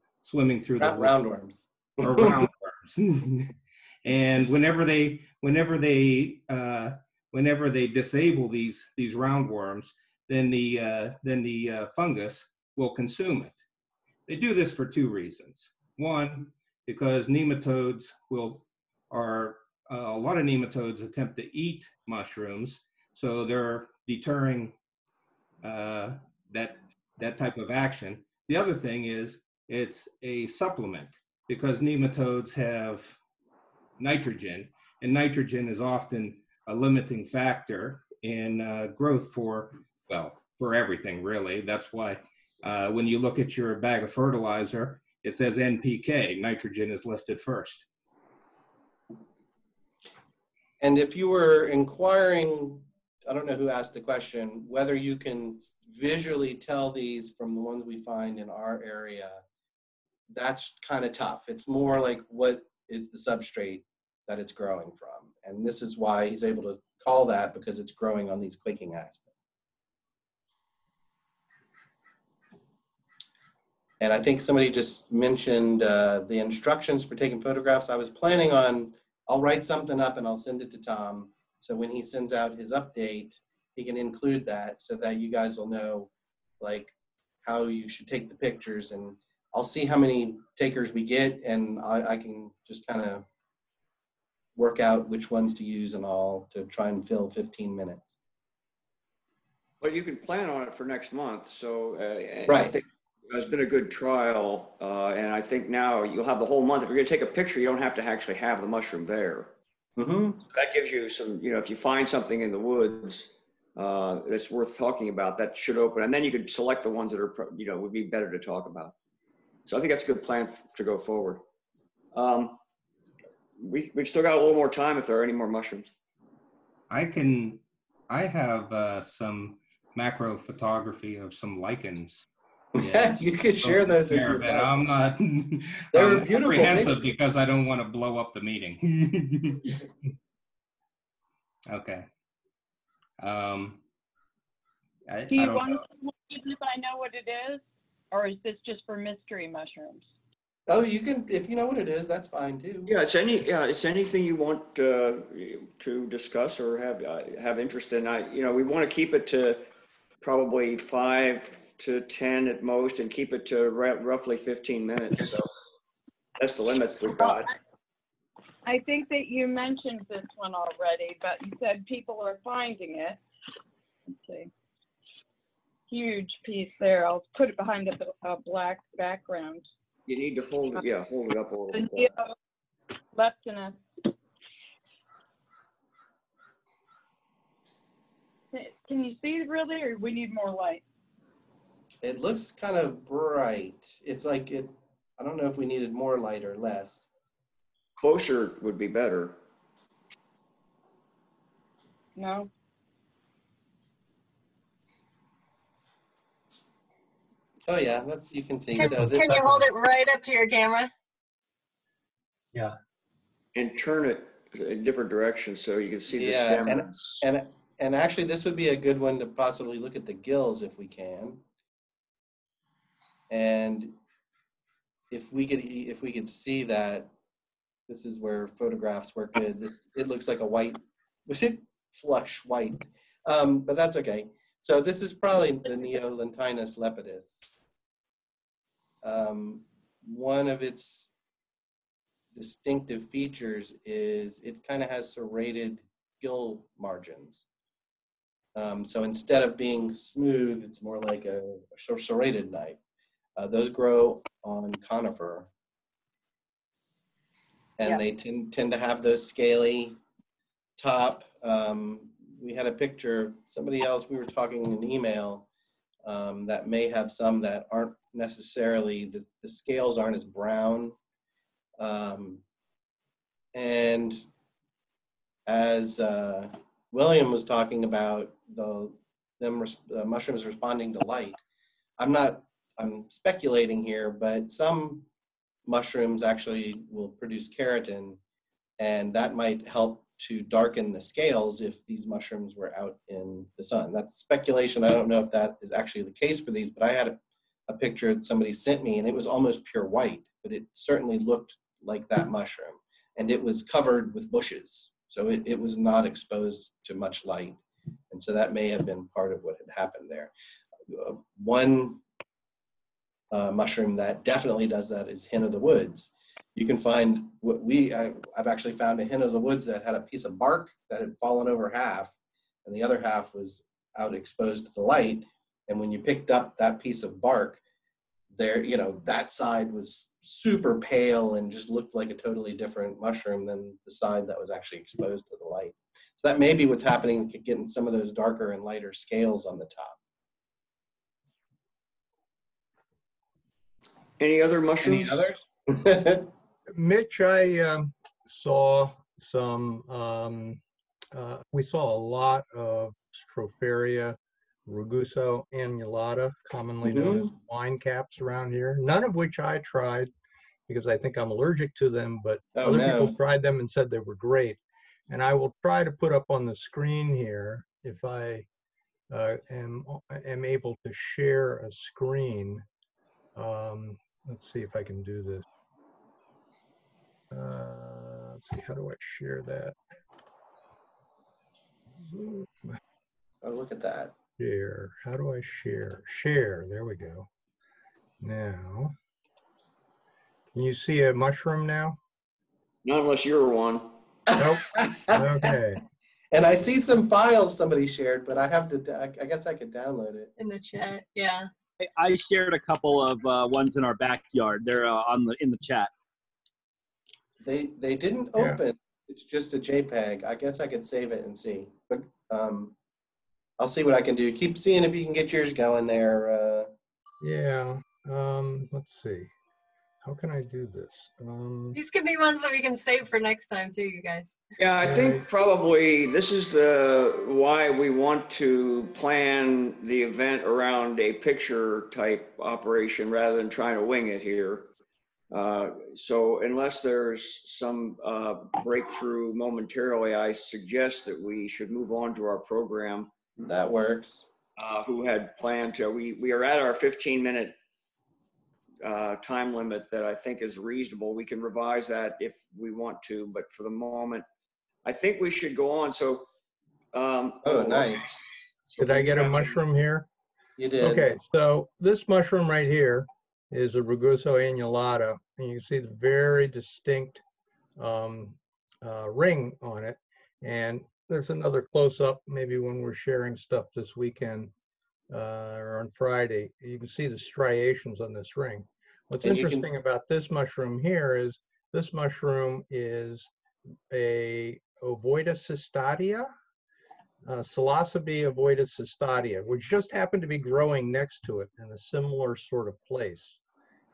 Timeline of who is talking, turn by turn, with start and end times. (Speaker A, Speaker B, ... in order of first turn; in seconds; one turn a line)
Speaker A: 0.2-1.2
Speaker B: 0.8-2.5
Speaker A: 2.0-13.6
Speaker A: 14.3-24.7
Speaker A: 25.6-33.2
Speaker A: 34.0-47.8
Speaker B: 50.8-59.4
Speaker B: 60.3-69.3
Speaker B: 74.0-93.2
Speaker B: 94.5-98.1
Speaker C: 99.8-109.5
Speaker B: 102.5-102.8
Speaker B: 110.0-110.4
Speaker C: 110.5-118.9
Speaker C: 119.7-121.4
Speaker C: 122.1-122.6
Speaker C: 123.6-125.9
Speaker A: 126.9-132.2
Speaker B: 132.7-134.8
Speaker A: 132.8-139.8
Speaker B: 135.9-137.2
Speaker A: 141.7-142.1
Speaker A: 143.2-143.8
Speaker A: 145.1-145.8
Speaker D: 145.3-150.1
Speaker B: 150.7-152.9
Speaker C: 152.9-159.7
Speaker C: 160.2-165.5
Speaker C: 166.4-167.5
Speaker D: 167.2-167.5
Speaker D: 168.6-173.2
Speaker D: 174.1-174.5
Speaker D: 175.9-179.7
Speaker C: 180.1-182.2
Speaker D: 181.7-182.3
Speaker D: 183.1-183.8
Speaker D: 188.5-190.8
Speaker B: 192.0-197.1
Speaker C: 198.0-199.4
Speaker D: 202.2-202.5
Speaker B: 207.7-209.7
Speaker E: 208.8-210.9
Speaker C: 213.5-217.3
Speaker B: 216.1-221.4
Speaker B: 223.3-223.9
Speaker B: 225.1-227.1
Speaker B: 227.9-237.6
Speaker B: 239.0-241.1
Speaker B: 242.3-247.4
Speaker B: 248.5-252.8
Speaker B: 253.3-255.5
Speaker B: 257.8-260.0
Speaker B: 260.8-265.5
Speaker B: 266.0-270.9
Speaker B: 271.8-272.4
Speaker B: 273.5-274.3
Speaker B: 275.4-281.4
Speaker B: 282.0-285.1
Speaker B: 285.6-288.2
Speaker B: 288.8-310.3
Speaker B: 310.9-312.0
Speaker B: 313.3-327.6
Speaker B: 328.3-340.0
Speaker C: 344.2-345.2
Speaker B: 344.8-346.3
Speaker F: 346.7-350.6
Speaker F: 351.1-360.1
Speaker B: 356.9-357.3
Speaker F: 360.7-368.5
Speaker B: 362.5-363.2
Speaker F: 369.1-372.6
Speaker F: 373.3-375.4
Speaker F: 377.3-379.8
Speaker F: 382.0-382.8
Speaker B: 383.4-384.1
Speaker F: 384.4-387.3
Speaker F: 388.2-388.9
Speaker F: 390.5-392.0
Speaker C: 392.8-394.0
Speaker B: 394.3-395.6
Speaker F: 394.4-395.8
Speaker B: 396.3-400.3
Speaker E: 400.4-401.5
Speaker G: 401.8-405.9
Speaker B: 407.4-412.7
Speaker F: 408.3-408.6
Speaker B: 413.6-416.7
Speaker F: 417.2-419.3
Speaker F: 420.0-421.8
Speaker E: 421.7-424.3
Speaker C: 424.6-434.7
Speaker F: 424.8-425.2
Speaker C: 435.3-443.1
Speaker B: 443.4-444.2
Speaker C: 444.6-447.6
Speaker C: 448.8-454.2
Speaker C: 454.8-456.3
Speaker C: 456.9-459.6
Speaker B: 457.4-458.1
Speaker F: 458.8-460.1
Speaker B: 460.6-461.2
Speaker F: 460.8-467.2
Speaker F: 467.8-474.5
Speaker F: 475.1-483.3
Speaker B: 479.2-479.7
Speaker F: 483.9-486.3
Speaker F: 487.2-493.4